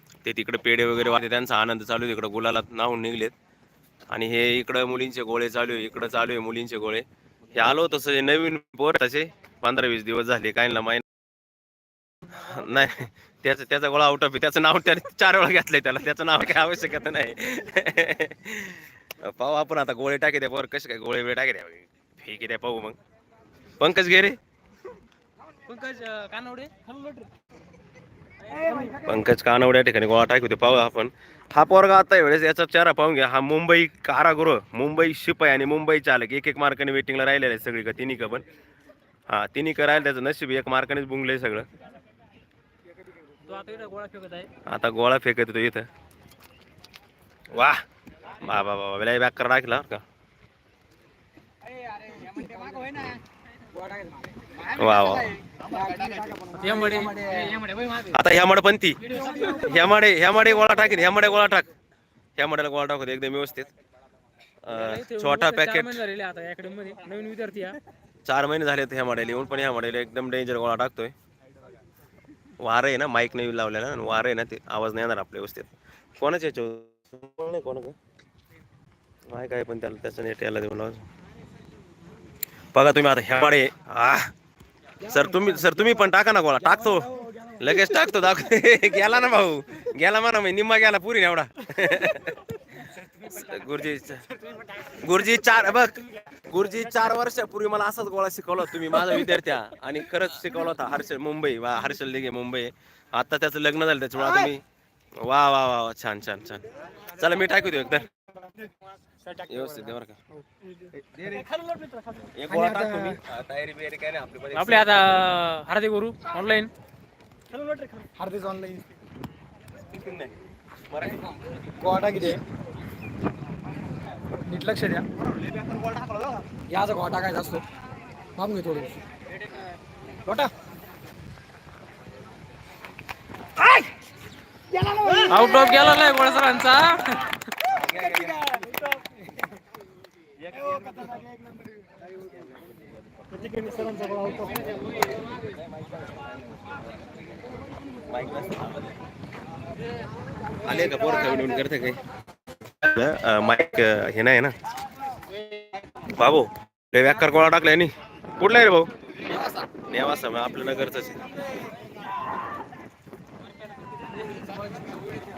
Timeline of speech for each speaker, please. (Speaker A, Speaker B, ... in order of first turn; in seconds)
Speaker A: 0.2-3.3, 4.1-7.0, 7.5-11.0, 12.3-22.9, 23.8-24.4, 29.0-38.5, 39.3-41.7, 44.7-45.9, 47.5-47.8, 48.4-50.0, 54.6-55.4, 58.0-61.7, 62.4-63.7, 64.6-66.0, 68.2-71.1, 72.6-78.0, 79.3-81.1, 82.7-84.3, 85.0-94.3, 94.8-104.6, 105.2-108.1, 109.4-110.2, 111.0-111.5, 112.3-115.2, 119.9-120.3, 120.9-121.3, 125.7-126.4, 137.7-138.4, 148.1-148.9, 150.6-152.0, 152.8-154.5, 156.1-158.9, 159.9-161.2
Speaker B: 25.7-26.9, 28.5-29.0, 43.5-44.5, 56.5-57.5, 64.7-67.8, 114.5-116.7, 135.2-137.3
Speaker C: 52.1-53.2, 53.8-54.1, 55.7-56.6, 57.3-57.8, 87.2-87.5, 110.5-113.2, 117.6-118.9, 121.8-122.4, 124.5-125.1, 126.5-127.7, 128.4-129.0, 130.2-130.5, 134.8-135.5, 138.5-138.9, 140.8-141.3, 143.3-144.7